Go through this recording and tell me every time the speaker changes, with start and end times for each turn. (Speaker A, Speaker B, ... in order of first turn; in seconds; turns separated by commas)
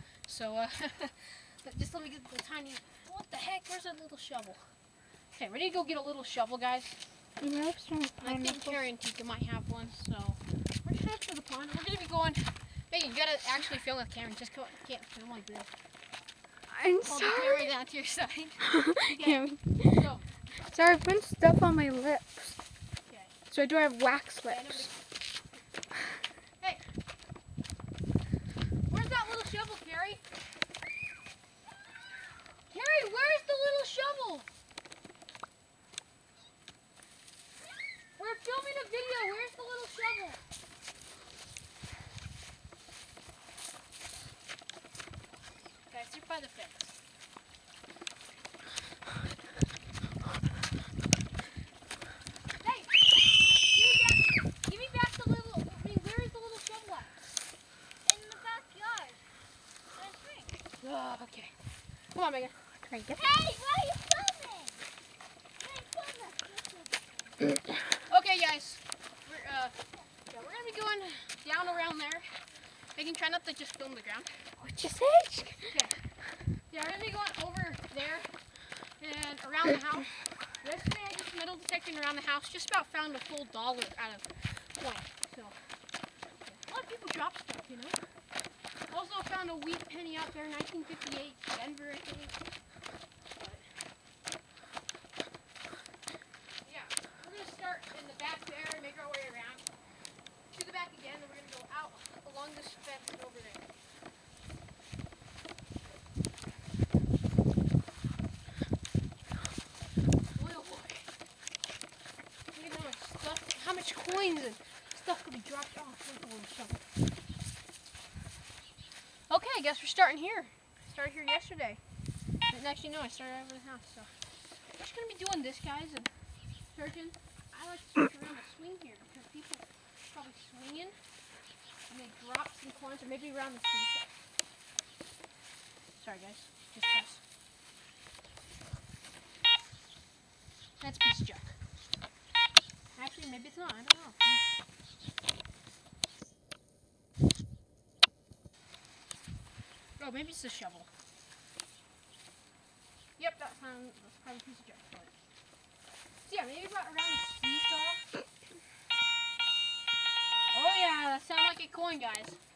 Speaker A: 0.3-4.6, Speaker A: 5.3-7.0, Speaker B: 7.4-8.8, Speaker A: 8.2-15.7, Speaker B: 16.7-17.7, Speaker A: 17.1-20.2, Speaker B: 18.6-20.1, Speaker B: 20.7-22.6, Speaker A: 23.1-23.3, Speaker B: 23.5-24.9, Speaker A: 24.5-25.0, Speaker A: 28.9-30.2, Speaker A: 32.7-34.5, Speaker A: 38.2-40.4, Speaker A: 45.9-46.9, Speaker A: 52.6-53.1, Speaker A: 53.6-57.2, Speaker B: 58.1-58.3, Speaker C: 58.3-58.7, Speaker B: 58.9-59.1, Speaker A: 60.8-61.5, Speaker A: 62.1-63.2, Speaker B: 62.9-63.4, Speaker C: 63.4-64.7, Speaker C: 65.6-66.8, Speaker B: 65.8-66.5, Speaker A: 68.0-69.7, Speaker A: 70.3-72.3, Speaker A: 73.0-74.3, Speaker B: 74.6-75.8, Speaker A: 75.7-76.0, Speaker A: 76.7-78.3, Speaker A: 79.0-85.6, Speaker A: 86.5-88.0, Speaker A: 88.9-92.4, Speaker A: 93.3-93.7, Speaker A: 96.6-99.7, Speaker A: 100.5-103.7, Speaker A: 110.3-111.0, Speaker A: 112.5-116.9, Speaker A: 119.3-121.8, Speaker A: 122.5-124.1, Speaker A: 124.8-126.1, Speaker A: 126.7-130.9, Speaker A: 131.9-134.1, Speaker A: 136.0-137.2, Speaker A: 140.8-141.6, Speaker A: 142.9-144.4, Speaker A: 150.0-150.9, Speaker A: 153.2-155.1, Speaker A: 156.2-158.1, Speaker A: 160.5-162.4